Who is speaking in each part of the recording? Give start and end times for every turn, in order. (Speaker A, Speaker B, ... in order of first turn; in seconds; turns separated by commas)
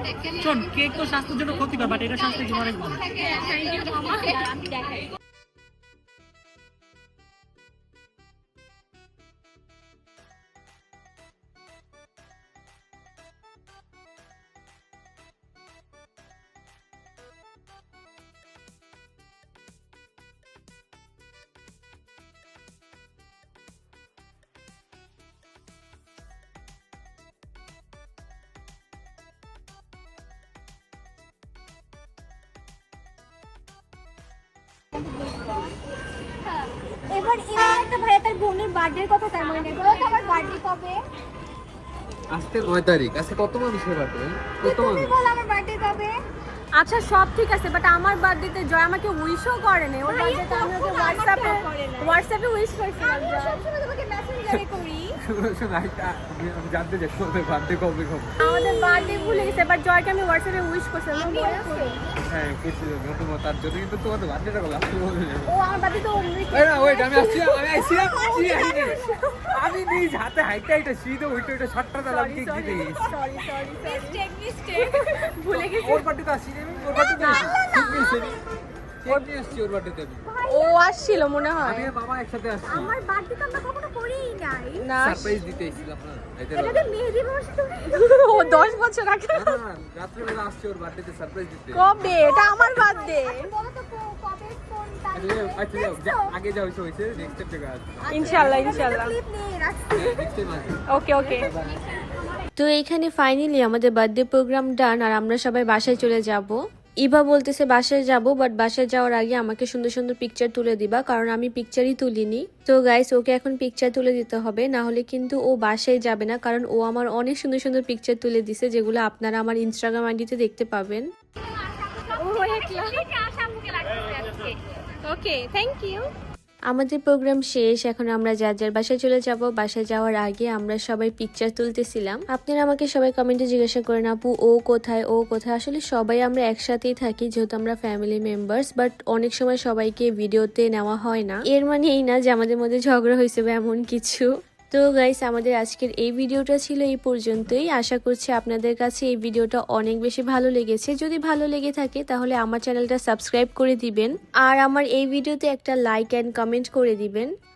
Speaker A: 0.3-3.1, Speaker B: 35.0-35.7, Speaker B: 37.1-41.0, Speaker C: 42.3-45.2, Speaker B: 44.6-46.2, Speaker D: 46.7-53.6, Speaker B: 50.0-52.2, Speaker B: 53.0-55.1, Speaker C: 55.2-58.4, Speaker B: 58.4-59.6, Speaker D: 58.4-62.0, Speaker B: 61.1-62.0, Speaker C: 62.3-65.7, Speaker B: 65.5-67.5, Speaker C: 66.5-73.2, Speaker B: 68.2-69.4, Speaker D: 72.0-76.0, Speaker B: 73.8-75.3, Speaker C: 75.5-78.4, Speaker B: 77.1-78.4, Speaker C: 79.0-80.3, Speaker B: 80.3-81.2, Speaker D: 80.4-81.9, Speaker C: 81.6-83.0, Speaker B: 82.7-84.9, Speaker D: 84.8-85.4, Speaker C: 85.0-86.9, Speaker B: 86.5-88.7, Speaker D: 87.9-89.6, Speaker C: 89.3-92.2, Speaker D: 91.7-93.5, Speaker B: 92.1-96.3, Speaker C: 95.1-98.8, Speaker B: 98.1-100.2, Speaker D: 98.1-99.2, Speaker C: 99.9-100.8, Speaker D: 100.9-101.5, Speaker C: 101.3-101.7, Speaker E: 102.5-121.0, Speaker B: 121.9-124.5, Speaker D: 122.2-123.2, Speaker D: 125.0-126.1, Speaker E: 126.7-157.3